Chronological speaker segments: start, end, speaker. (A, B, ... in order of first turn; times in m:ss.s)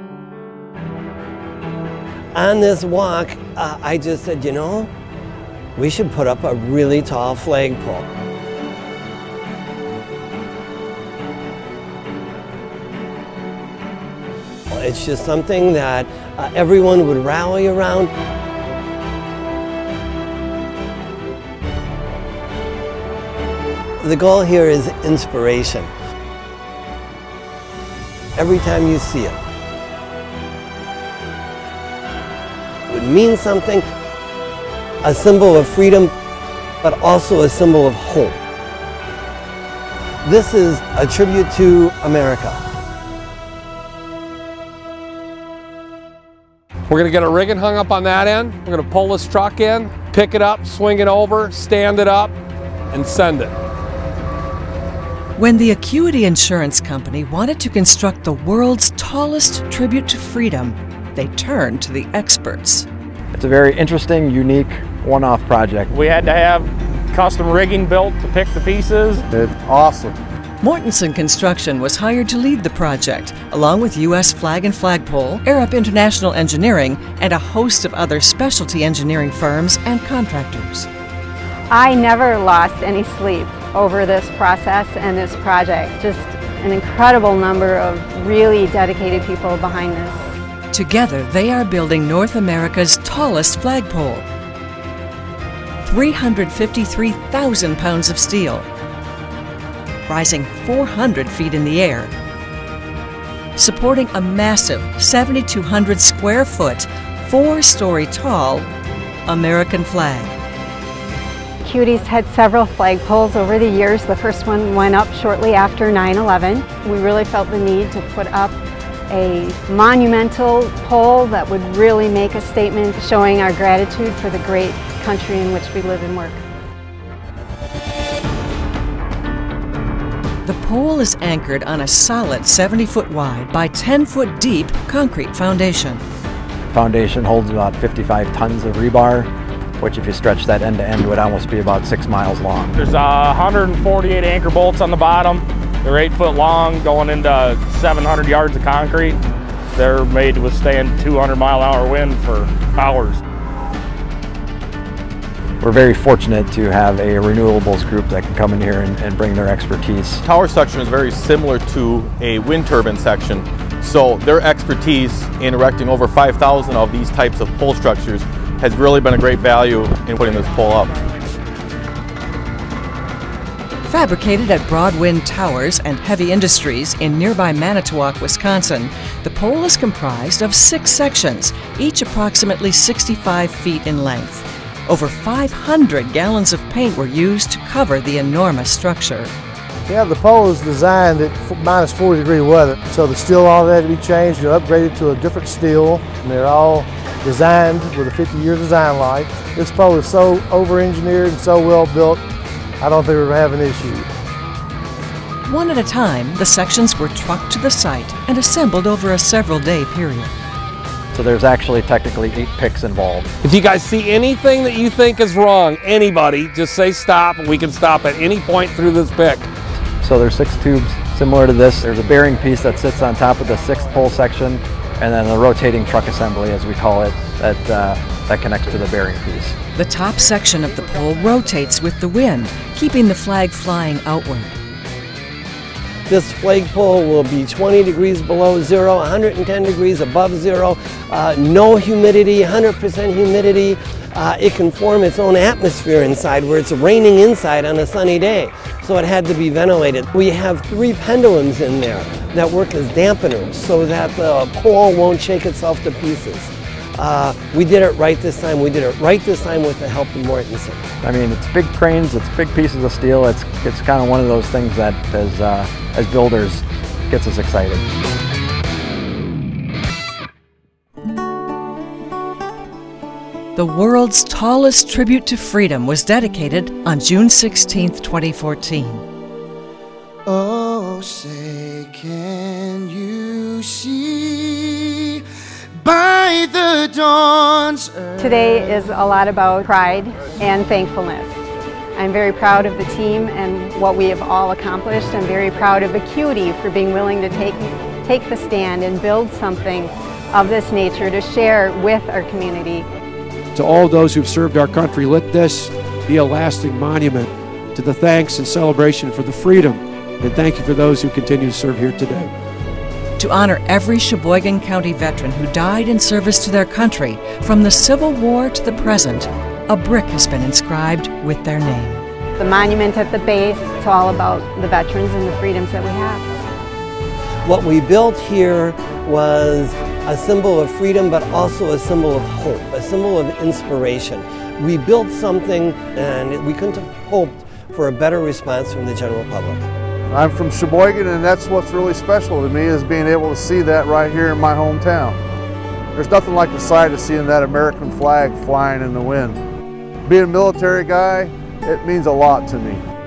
0:02.3-0:04.9 A
0:05.8-0:08.0 A
0:14.7-0:18.1 A
0:24.0-0:25.9 A
0:28.4-0:29.4 A
0:32.9-0:33.8 A
0:35.0-0:36.1 A
0:36.8-0:38.3 A
0:40.2-0:42.6 A
0:46.9-0:52.3 B
0:52.9-0:53.5 B
0:55.4-1:02.8 C
1:03.3-1:05.9 D
1:05.9-1:09.2 E
1:09.3-1:10.2 F
1:10.6-1:20.9 C
1:21.7-1:30.2 G
1:30.7-1:34.2 C
1:35.8-1:38.7 C
1:40.1-1:42.1 C
1:43.6-1:48.7 C
1:49.2-1:50.3 C
1:51.6-1:58.6 G
1:59.1-2:06.4 G
2:10.4-2:16.0 C
2:16.7-2:22.8 D
2:22.8-2:29.2 E
2:29.8-2:33.2 E
2:35.6-2:40.2 D
2:40.2-2:51.0 H
2:53.9-3:09.3 C
3:09.9-3:22.2 I
3:22.8-3:24.1 I
3:25.4-3:30.3 C
3:31.1-3:33.3 D
3:33.4-3:39.5 B
3:40.0-3:49.6 D
3:49.8-3:54.6 C
3:56.1-4:20.9 A
4:21.0-4:27.8 D
4:33.6-4:39.0 C
4:40.2-4:45.0 J
4:45.8-4:48.7 J
4:48.2-4:51.4 G
4:52.0-5:02.8 G
5:03.5-5:12.3 K
5:13.2-5:22.0 C
5:22.4-5:26.2 G
5:27.4-5:39.6 A
5:40.1-5:45.2 F
5:46.0-5:49.4 F
5:50.1-5:52.8 F